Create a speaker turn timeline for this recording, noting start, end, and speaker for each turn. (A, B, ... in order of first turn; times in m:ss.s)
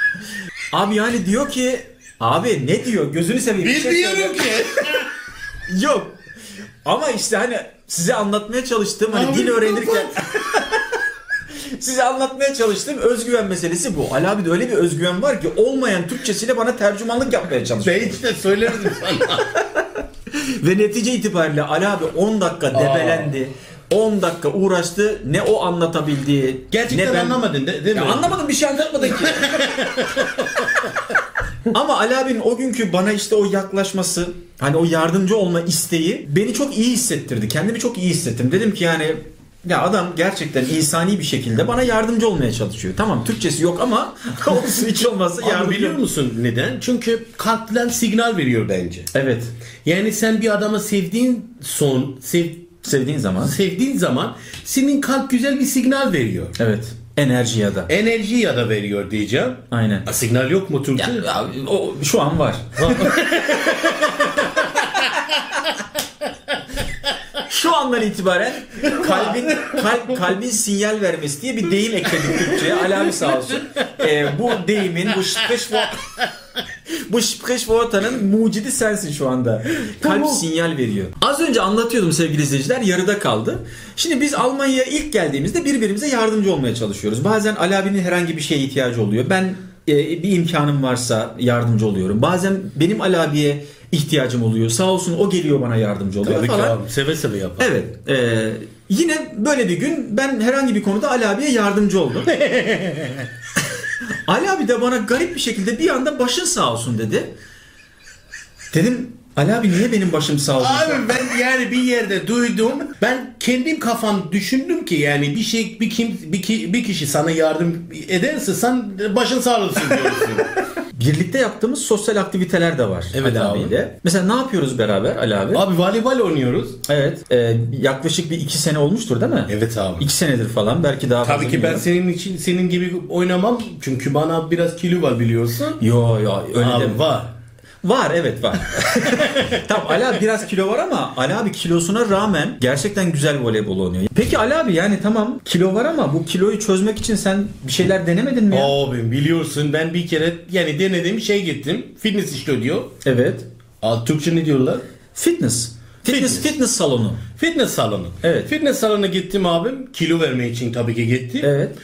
0:00.7-0:04.5 A
0:03.6-0:05.1 B
0:05.7-0:06.2 A
0:06.8-0:10.6 A
0:09.1-0:10.6 B
0:11.7-0:18.2 A
0:17.8-0:19.6 B
0:19.6-0:27.4 A
0:22.7-0:23.3 B
0:26.7-0:28.4 B
0:27.9-0:29.6 A
0:29.0-0:31.0 B
0:31.7-0:46.0 A
0:45.4-0:49.1 B
0:49.1-0:49.5 A
0:49.8-0:52.7 B
0:52.8-0:53.6 A
0:53.4-0:56.5 B
0:56.6-0:57.9 A
0:57.9-1:01.3 B
0:59.7-1:00.1 A
1:01.0-1:03.1 A
1:02.8-1:05.2 B
1:07.4-1:16.0 A
1:08.9-1:09.8 B
1:12.4-1:13.3 B
1:17.0-1:36.8 A
1:20.0-1:20.4 B
1:36.2-1:37.7 B
1:37.6-1:42.3 A
1:42.3-1:43.3 B
1:44.2-1:47.3 A
1:48.7-1:51.0 A
1:50.6-2:00.5 B
2:00.5-2:05.6 A
2:03.1-2:03.7 B
2:05.5-2:06.8 B
2:06.8-2:11.8 A
2:09.5-2:10.1 B
2:11.2-2:15.8 B
2:15.8-2:17.0 A
2:16.6-2:17.3 B
2:17.8-2:28.7 A
2:28.5-2:32.9 B
2:33.0-2:33.4 A
2:33.8-2:34.8 B
2:35.1-2:37.2 A
2:36.1-2:36.5 B
2:37.4-2:41.5 B
2:38.2-2:38.5 A
2:41.4-2:41.7 A